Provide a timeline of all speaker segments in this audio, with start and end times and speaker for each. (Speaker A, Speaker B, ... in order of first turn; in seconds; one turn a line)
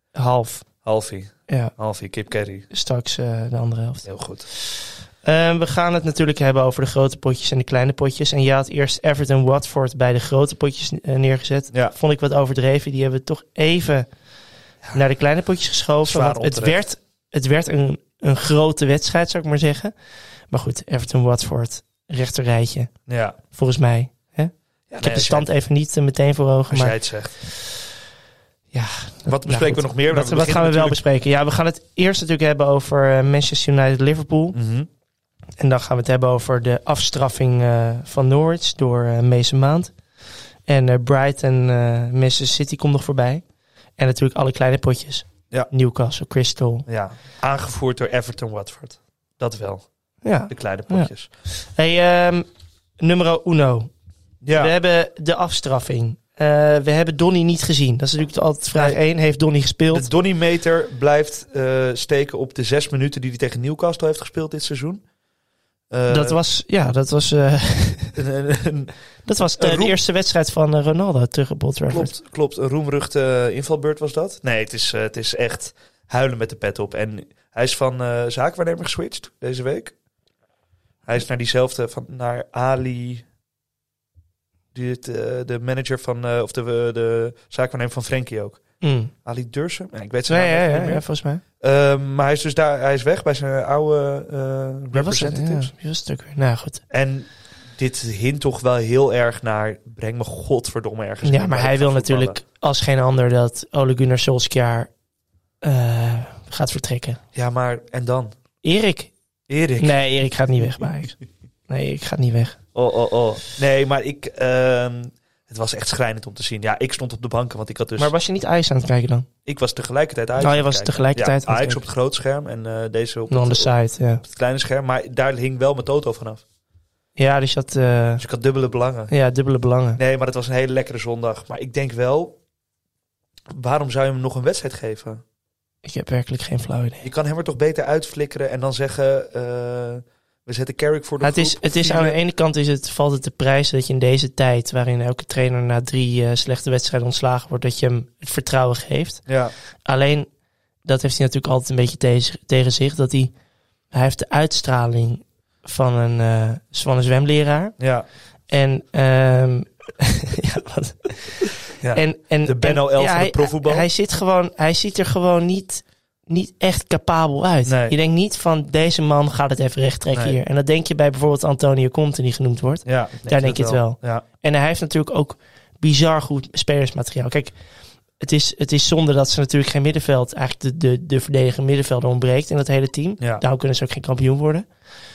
Speaker A: 0.1-0.7
Speaker B: 0.8-2.6
Speaker A: 1.5-1.7
Speaker A: 2.7-14.1
Speaker B: 4.0-4.5
Speaker A: 14.9-19.9
Speaker B: 16.0-16.8
Speaker A: 20.5-27.8
Speaker B: 23.1-23.4
Speaker B: 24.9-25.5
Speaker B: 26.7-27.4
Speaker A: 28.7-34.6
Speaker B: 29.3-31.0
Speaker B: 34.5-34.9
Speaker A: 35.6-39.9
Speaker A: 40.6-43.4
Speaker A: 44.0-46.9
Speaker B: 46.9-49.9
Speaker A: 50.2-52.5
Speaker B: 50.5-51.3
Speaker A: 53.0-53.9
Speaker B: 54.4-54.7
Speaker A: 54.5-60.1
Speaker B: 59.9-65.0
Speaker B: 65.9-66.4
Speaker A: 66.1-68.2
Speaker B: 68.1-68.9
Speaker A: 69.2-72.1
Speaker B: 69.6-69.9
Speaker B: 71.9-79.9
Speaker B: 81.0-83.2
Speaker B: 84.7-88.6
Speaker A: 88.8-89.1
Speaker B: 89.2-91.0
Speaker A: 90.3-91.4
Speaker B: 91.6-95.7
Speaker A: 94.9-96.8
Speaker B: 96.9-102.4
Speaker A: 101.2-104.9
Speaker A: 105.6-107.2
Speaker B: 107.3-108.3
Speaker A: 108.6-109.1
Speaker B: 109.5-110.0
Speaker A: 109.8-111.1
Speaker A: 111.7-112.6
Speaker B: 112.7-118.1
Speaker A: 118.0-119.3
Speaker B: 119.5-126.4
Speaker A: 120.4-121.8
Speaker A: 123.3-124.2
Speaker A: 127.2-128.2
Speaker B: 128.2-129.1
Speaker A: 129.1-130.0
Speaker B: 129.9-132.4
Speaker B: 133.5-135.2
Speaker A: 135.8-137.1
Speaker B: 137.0-142.2
Speaker A: 141.2-149.2
Speaker B: 149.3-149.5
Speaker A: 149.8-150.3
Speaker A: 150.8-153.3
Speaker A: 153.9-157.8
Speaker B: 157.8-158.1
Speaker A: 158.5-177.5
Speaker B: 161.8-163.9
Speaker B: 167.7-167.9
Speaker B: 170.1-170.4
Speaker B: 172.8-174.2
Speaker A: 178.2-184.7